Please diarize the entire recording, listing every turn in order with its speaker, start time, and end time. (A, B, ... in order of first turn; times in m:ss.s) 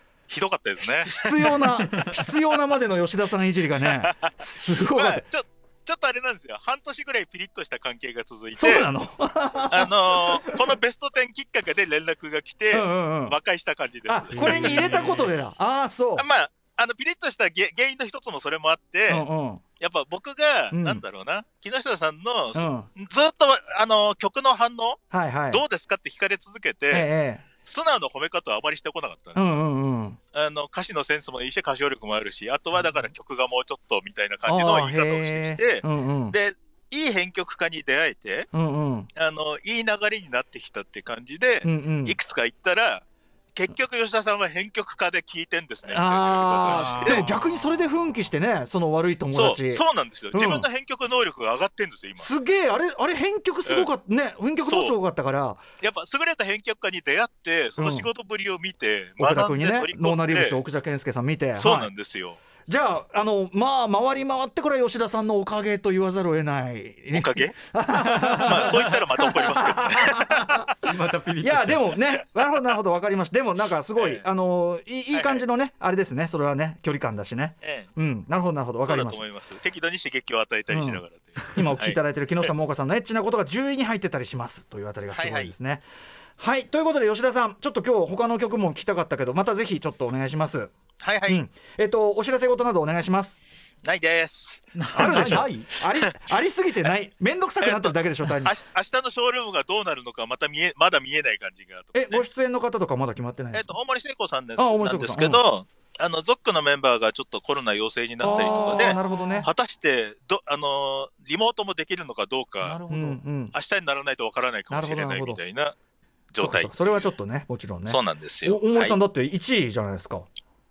0:00.3-0:01.6 A
0:00.8-0:05.3 B
0:03.8-0:08.9 A
0:08.5-0:10.6 B
0:09.7-0:15.2 A
0:12.7-0:13.4 B
0:14.1-0:16.2 B
0:14.4-0:15.1 C
0:16.2-0:19.3 A
0:19.1-0:19.6 B
0:19.8-0:27.1 A
0:20.7-0:21.0 B
0:22.5-0:22.9 B
0:25.1-0:25.6 B
0:26.9-0:27.4 B
0:27.6-0:29.6 A
0:29.4-0:30.2 B
0:30.3-0:38.5 A
0:34.5-0:36.4 B
0:38.5-0:39.1 B
0:39.2-0:43.0 A
0:41.6-0:42.2 B
0:43.6-0:47.3 A
0:45.9-0:50.7 B
0:49.3-0:52.3 A
0:52.2-0:55.6 B
0:53.6-0:53.9 A
0:54.6-0:55.0 A
0:55.8-1:00.6 A
0:57.8-0:58.1 B
0:59.2-1:01.9 B
1:01.5-1:02.4 A
1:02.7-1:10.7 B
1:07.1-1:07.6 A
1:08.4-1:10.7 A
1:10.9-1:11.8 C
1:11.3-1:19.2 B
1:14.0-1:14.3 A
1:15.1-1:15.4 A
1:17.6-1:17.9 A
1:18.8-1:22.5 A
1:20.7-1:25.8 B
1:25.1-1:25.5 A
1:26.4-1:30.7 B
1:31.0-1:31.4 A
1:31.3-1:33.4 B
1:33.8-1:35.5 A
1:34.8-1:38.5 B
1:35.2-1:35.4 C
1:37.6-1:42.3 A
1:41.9-1:43.8 B
1:43.5-1:52.8 A
1:44.6-1:45.4 B
1:48.2-1:49.5 B
1:48.3-1:49.5 C
1:52.6-1:53.2 C
1:52.9-1:53.6 B
1:53.5-1:55.8 A
1:54.7-1:55.4 B
1:56.3-1:57.2 A
1:56.4-2:00.3 B
1:57.9-1:59.0 A